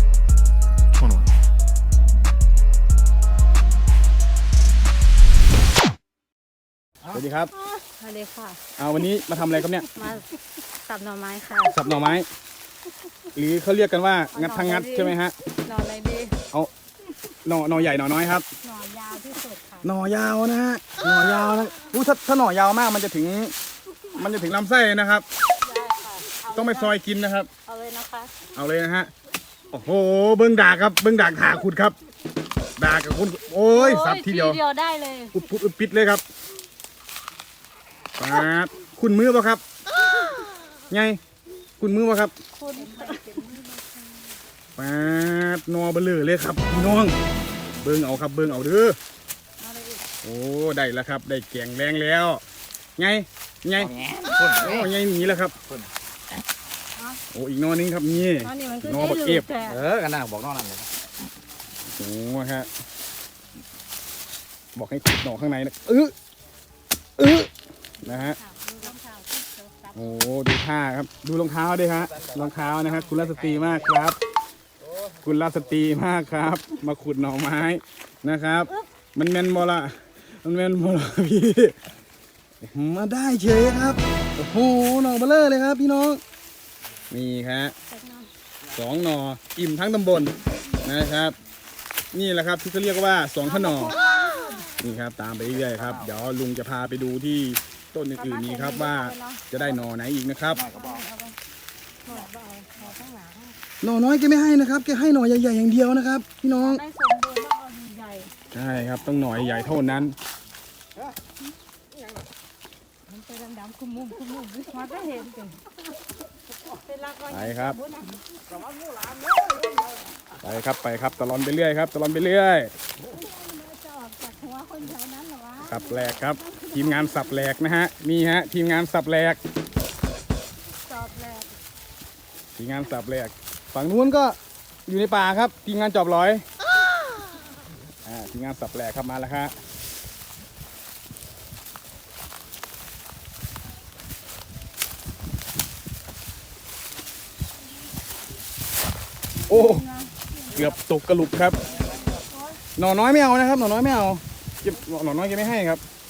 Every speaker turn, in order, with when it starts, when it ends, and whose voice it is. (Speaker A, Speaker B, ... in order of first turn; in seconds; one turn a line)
Speaker A: 7.1-7.5
Speaker B: 7.6-8.6
Speaker A: 8.8-9.9
Speaker B: 9.9-10.3
Speaker B: 10.8-11.8
Speaker A: 11.7-12.3
Speaker A: 13.3-15.3
Speaker B: 14.3-16.3
Speaker A: 17.4-18.5
Speaker B: 18.6-19.9
Speaker A: 19.8-23.5
Speaker A: 24.1-25.3
Speaker B: 25.6-27.0
Speaker A: 26.5-27.5
Speaker B: 27.6-28.3
Speaker A: 28.6-29.1
Speaker A: 29.7-31.9
Speaker A: 32.8-34.6
Speaker B: 33.7-35.4
Speaker A: 35.3-36.2
Speaker A: 38.2-39.6
Speaker A: 40.9-41.2
Speaker A: 41.8-42.3
Speaker B: 42.6-43.7
Speaker A: 44.8-47.2
Speaker A: 47.8-49.0
Speaker B: 49.6-50.0
Speaker A: 50.2-52.4
Speaker A: 53.0-53.9
Speaker C: 53.8-54.9
Speaker A: 54.6-55.5
Speaker A: 57.3-59.5
Speaker B: 58.4-59.8
Speaker C: 59.6-60.9
Speaker A: 61.9-62.7
Speaker A: 64.8-66.1
Speaker A: 67.2-67.5
Speaker A: 68.0-68.4
Speaker B: 68.0-70.2
Speaker A: 70.0-74.2
Speaker A: 75.2-81.8
Speaker A: 82.6-86.2
Speaker A: 87.1-87.8
Speaker B: 87.9-88.3
Speaker A: 88.7-91.4
Speaker A: 92.1-94.0
Speaker B: 93.4-94.7
Speaker A: 94.8-100.6
Speaker C: 95.6-96.1
Speaker B: 98.2-99.5
Speaker C: 100.5-101.0
Speaker B: 100.6-101.4
Speaker B: 102.1-103.5
Speaker A: 103.8-106.8
Speaker B: 106.6-108.3
Speaker A: 108.5-110.2
Speaker B: 113.1-115.6
Speaker B: 116.7-118.2
Speaker A: 117.3-117.8
Speaker C: 118.8-119.5
Speaker A: 120.4-122.7
Speaker B: 123.1-127.2
Speaker A: 125.6-129.4
Speaker B: 130.9-131.5
Speaker A: 132.6-136.4
Speaker A: 138.1-139.5
Speaker B: 149.5-150.7
Speaker A: 149.5-149.8
Speaker A: 150.5-151.6
Speaker B: 152.0-152.6
Speaker A: 152.8-155.8